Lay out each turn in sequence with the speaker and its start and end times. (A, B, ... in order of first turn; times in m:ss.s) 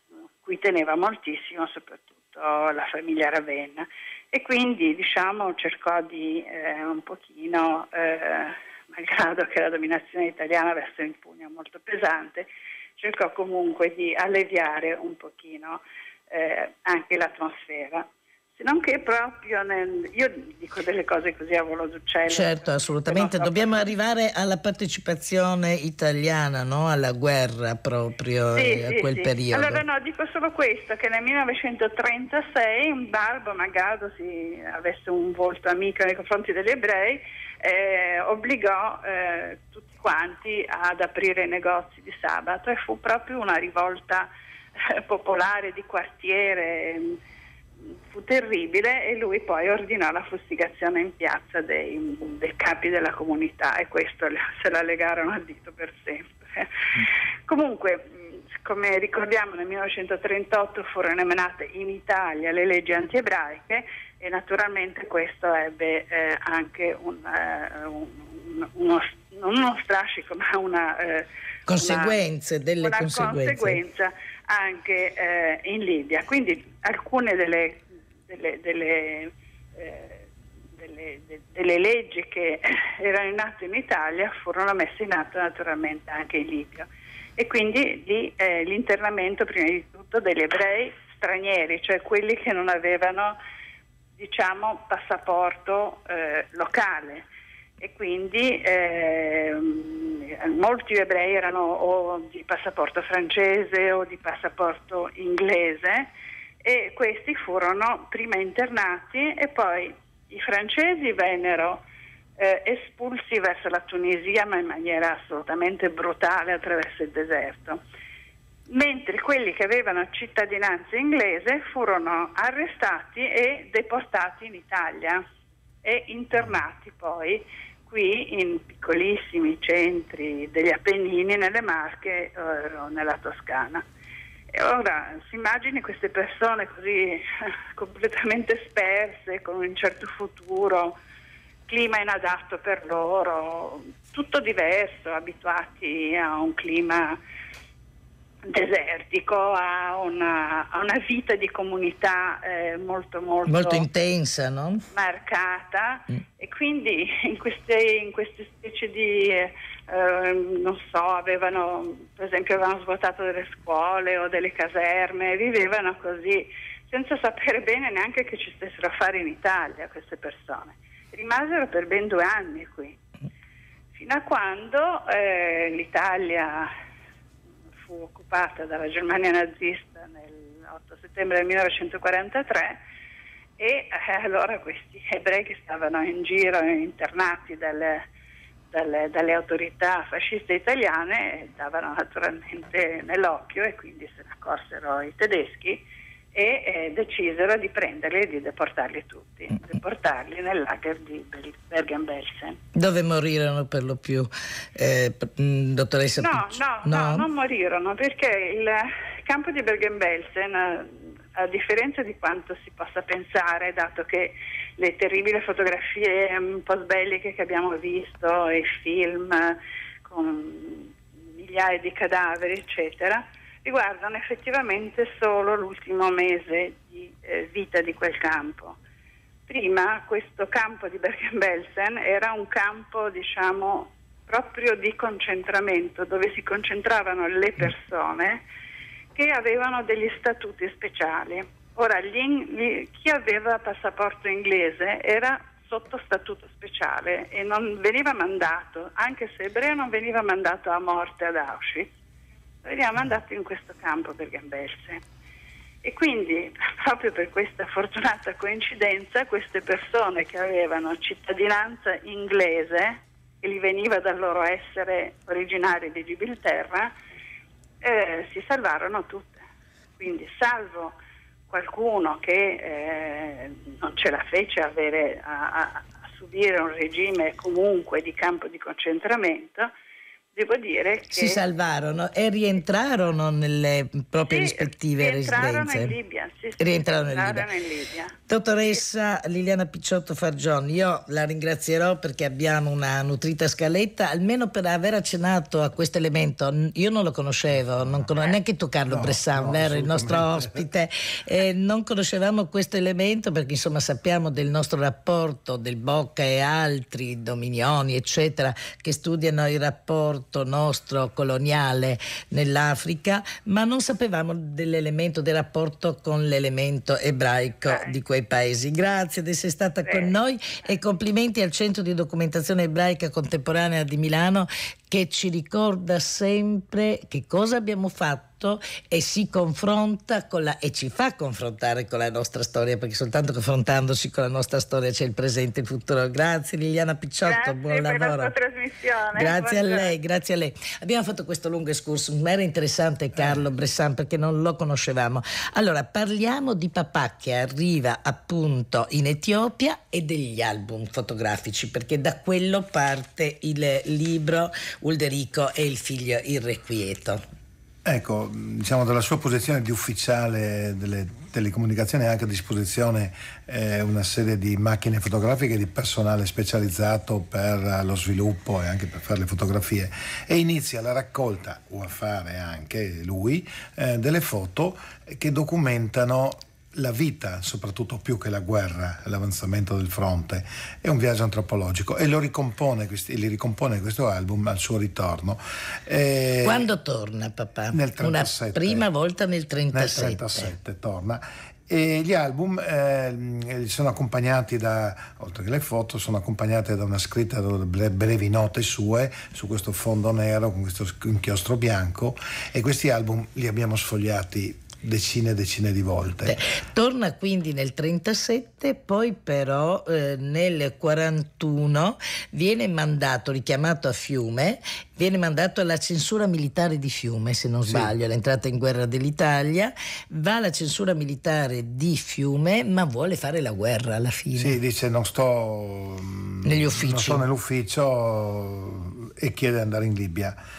0:00.4-0:23.9 A
0:22.3-0:29.8 B
0:28.6-0:44.3 A
0:44.9-0:47.2 A
0:48.1-0:58.1 A
0:58.6-1:12.2 A
1:11.7-1:13.8 B
1:12.8-1:20.2 A
1:20.8-1:33.4 A
1:34.2-1:37.3 A
1:37.8-1:46.1 A
1:46.6-1:51.8 A
1:52.4-1:57.8 A
1:58.7-2:05.2 A
2:05.8-2:13.8 A
2:14.5-2:21.0 A
2:21.7-2:27.2 A
2:28.5-2:33.9 A
2:33.5-2:34.8 B
2:34.9-2:53.0 A
2:54.0-2:56.7 A
2:57.8-3:02.8 A
3:03.6-3:08.0 A
3:08.7-3:22.6 A
3:22.8-3:27.3 B
3:26.2-3:48.8 A
3:49.5-3:58.4 A
3:59.2-4:11.9 A
4:12.6-4:15.0 A
4:15.8-4:26.9 A
4:27.8-4:29.4 A
4:30.0-4:31.0 A
4:31.5-4:39.7 A
4:40.3-4:41.4 A
4:41.1-4:46.0 B
4:44.3-4:48.1 A
4:46.6-4:47.5 B
4:48.3-5:38.3 B
4:58.9-5:00.6 C
5:17.7-5:18.0 A
5:19.8-5:20.1 A
5:37.2-5:39.9 A
5:39.2-5:57.2 B
5:57.8-6:26.7 C
6:26.4-6:30.5 B
6:27.7-6:28.9 C
6:29.7-6:46.4 C
6:46.3-7:04.6 B
7:04.4-7:10.4 C
7:06.4-7:07.2 B